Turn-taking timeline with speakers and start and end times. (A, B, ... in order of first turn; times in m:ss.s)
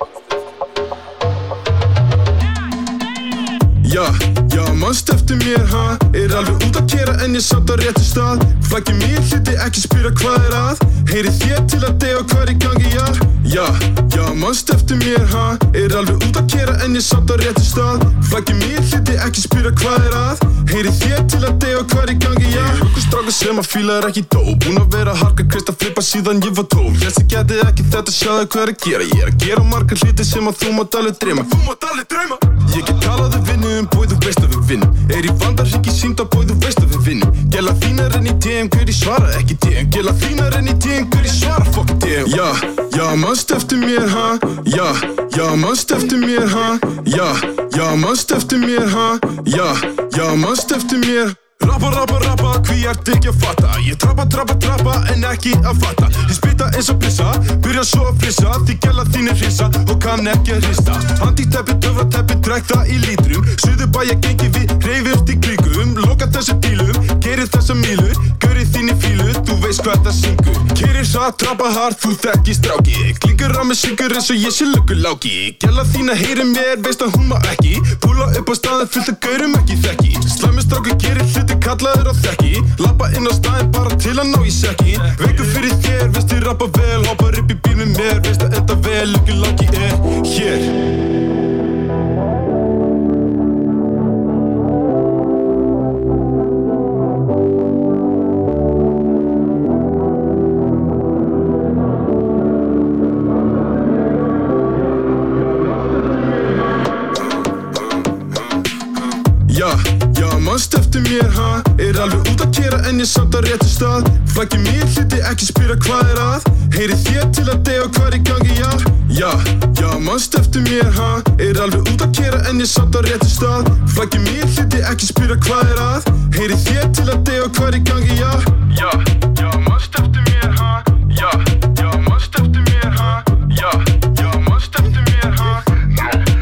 0:03.8-1:30.7 A
1:47.4-2:16.2 A